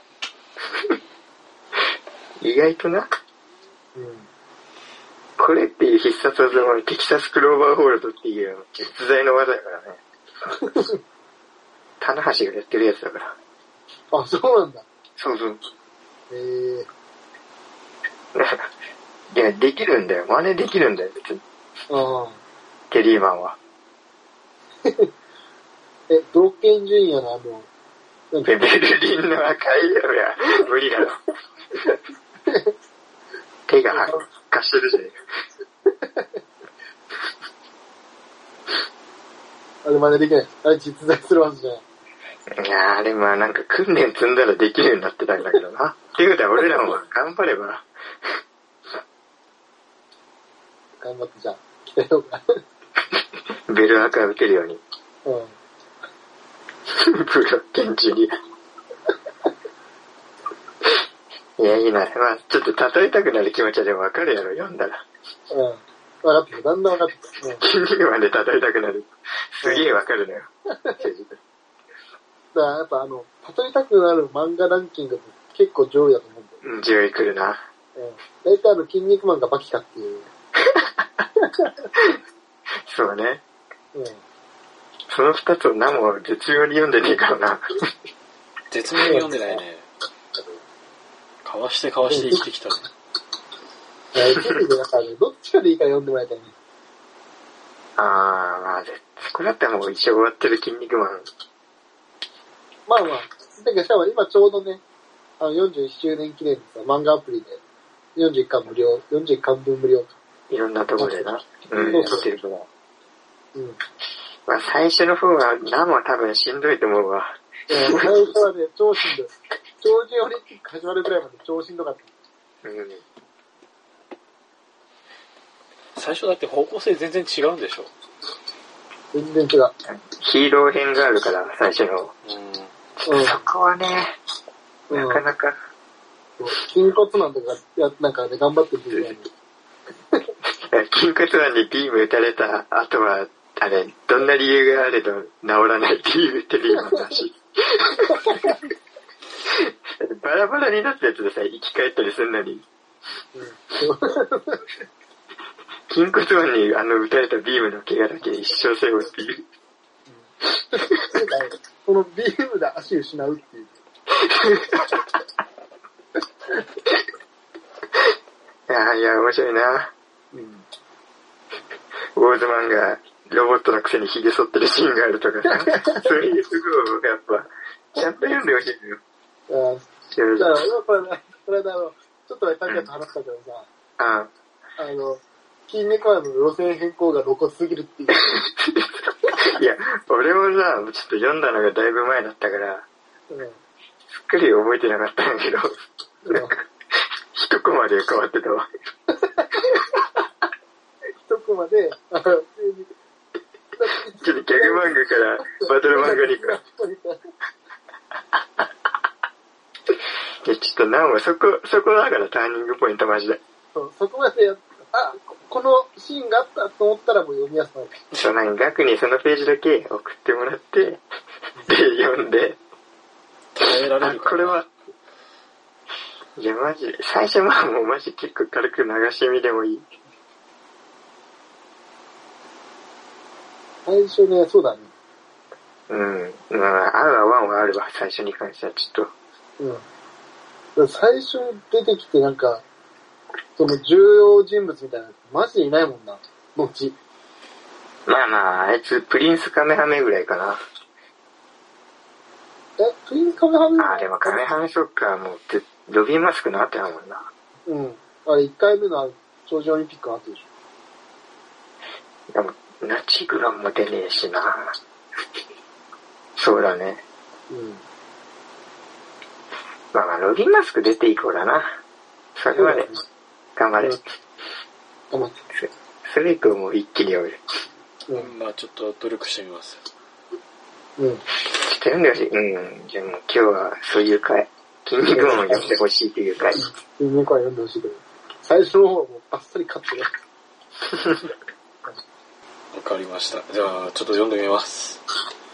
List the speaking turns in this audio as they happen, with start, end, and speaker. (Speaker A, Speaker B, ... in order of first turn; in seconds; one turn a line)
Speaker A: 0.7-1.0
Speaker A: 2.4-3.1
Speaker B: 3.9-4.3
Speaker A: 5.4-10.0
Speaker B: 10.5-11.0
Speaker A: 12.0-13.3
Speaker B: 14.1-14.8
Speaker A: 15.2-15.6
Speaker B: 16.3-16.9
Speaker A: 18.3-18.7
Speaker A: 19.3-21.4
Speaker B: 21.9-22.4
Speaker A: 22.9-23.6
Speaker B: 26.1-27.7
Speaker B: 28.3-28.6
Speaker A: 28.4-31.2
Speaker B: 32.5-32.7
Speaker A: 33.7-35.2
Speaker B: 33.9-34.2
Speaker B: 35.9-36.3
Speaker B: 39.8-41.8
Speaker A: 42.5-48.4
Speaker B: 51.0-52.6
Speaker A: 53.7-54.8
Speaker B: 55.2-55.5
Speaker A: 56.9-58.4
Speaker A: 61.6-65.0
Speaker B: 65.5-67.6
Speaker A: 67.6-71.4
Speaker B: 69.6-69.9
Speaker B: 72.5-76.6
Speaker A: 76.6-77.6
Speaker B: 78.0-80.3
Speaker A: 80.7-81.0
Speaker B: 81.4-81.7
Speaker A: 82.8-83.4
Speaker B: 83.9-84.2
Speaker A: 85.1-87.6
Speaker C: 88.7-89.8
Speaker B: 89.0-89.4
Speaker C: 91.4-92.8
Speaker B: 92.0-92.4
Speaker B: 94.1-96.5
Speaker A: 98.0-101.3
Speaker B: 102.9-104.8
Speaker B: 105.4-107.6
Speaker B: 108.2-110.1
Speaker A: 110.5-112.7
Speaker B: 111.0-112.2
Speaker B: 113.5-113.8
Speaker A: 114.5-118.2
Speaker B: 117.7-122.1
Speaker A: 122.6-123.0
Speaker C: 126.0-127.9
Speaker B: 129.1-129.7
Speaker A: 129.8-132.1
Speaker C: 132.2-132.7
Speaker A: 133.0-134.1
Speaker B: 133.1-133.4
Speaker B: 134.9-135.2
Speaker A: 134.9-135.6
Speaker B: 136.4-139.3
Speaker A: 140.6-148.6
Speaker B: 148.1-148.5
Speaker A: 149.4-152.6
Speaker B: 153.3-154.7
Speaker A: 155.9-159.4
Speaker B: 160.1-163.8
Speaker A: 164.2-165.0
Speaker A: 168.7-169.9
Speaker B: 170.3-170.6
Speaker A: 172.1-179.0
Speaker B: 175.6-176.0
Speaker B: 179.5-183.7
Speaker A: 180.1-180.5
Speaker A: 184.0-184.3
Speaker B: 184.8-188.4
Speaker A: 188.2-192.8
Speaker B: 193.3-193.6
Speaker A: 194.1-198.7
Speaker B: 196.2-196.6
Speaker B: 199.2-199.5
Speaker B: 201.2-202.9
Speaker B: 203.8-207.2
Speaker A: 204.2-206.6
Speaker A: 210.4-213.4
Speaker B: 213.7-218.0
Speaker A: 218.1-221.0
Speaker A: 221.7-222.6
Speaker C: 223.5-224.6
Speaker A: 224.0-224.7
Speaker A: 226.4-229.9
Speaker B: 233.8-234.9
Speaker A: 235.9-239.1
Speaker B: 239.6-239.8
Speaker B: 240.8-242.6
Speaker B: 243.6-247.0
Speaker A: 248.1-250.6
Speaker B: 252.8-254.4
Speaker A: 253.8-257.3
Speaker B: 257.7-260.4
Speaker A: 262.3-264.7
Speaker A: 266.4-267.0
Speaker B: 267.5-267.8
Speaker A: 269.9-271.8
Speaker A: 272.4-272.9
Speaker B: 272.5-273.0
Speaker A: 273.6-274.0
Speaker B: 275.1-275.4
Speaker A: 275.6-277.4
Speaker C: 278.1-279.8
Speaker B: 281.0-281.2
Speaker A: 281.4-286.6
Speaker B: 285.1-285.7
Speaker B: 286.5-290.1
Speaker C: 292.7-295.0